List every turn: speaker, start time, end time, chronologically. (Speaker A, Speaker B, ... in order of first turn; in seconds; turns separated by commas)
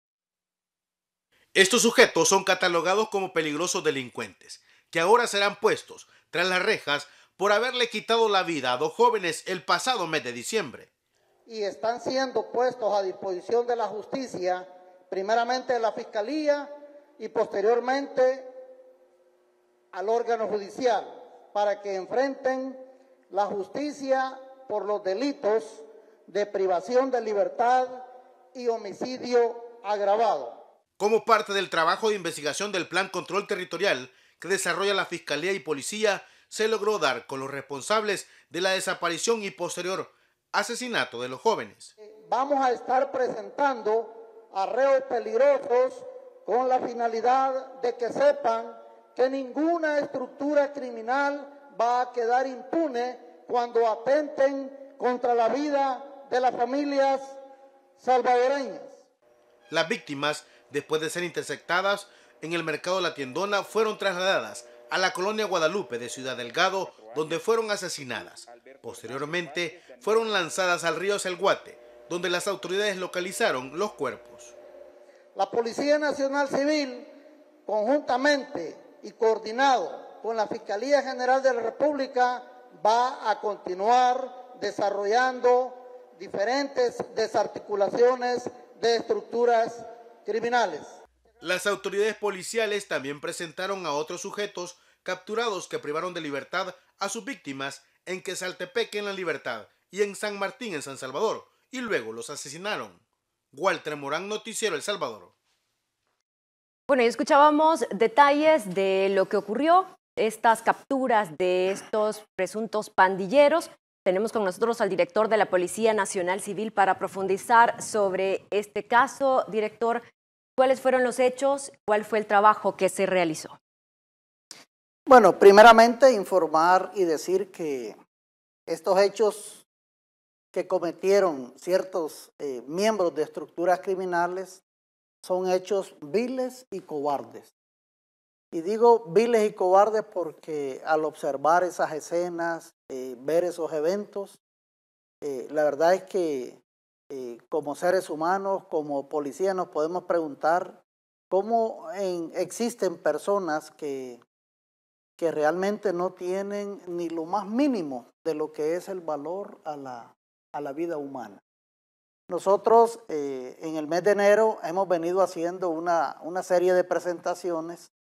Speaker A: 1.6-10.9, Speaker B: 11.5-18.5, Speaker B: 19.9-30.6, Speaker A: 31.0-41.9, Speaker B: 42.1-57.4, Speaker B: 58.0-59.0, Speaker A: 59.7-74.5, Speaker B: 75.3-77.1, Speaker B: 77.7-91.0, Speaker A: 91.4-103.0, Speaker A: 103.5-105.3, Speaker C: 106.9-120.0, Speaker C: 120.6-123.6, Speaker B: 125.1-128.0, Speaker B: 128.7-129.7, Speaker B: 130.5-134.6, Speaker B: 135.2-137.5, Speaker B: 138.5-144.4, Speaker B: 145.2-154.2, Speaker B: 155.2-161.4, Speaker B: 162.3-167.9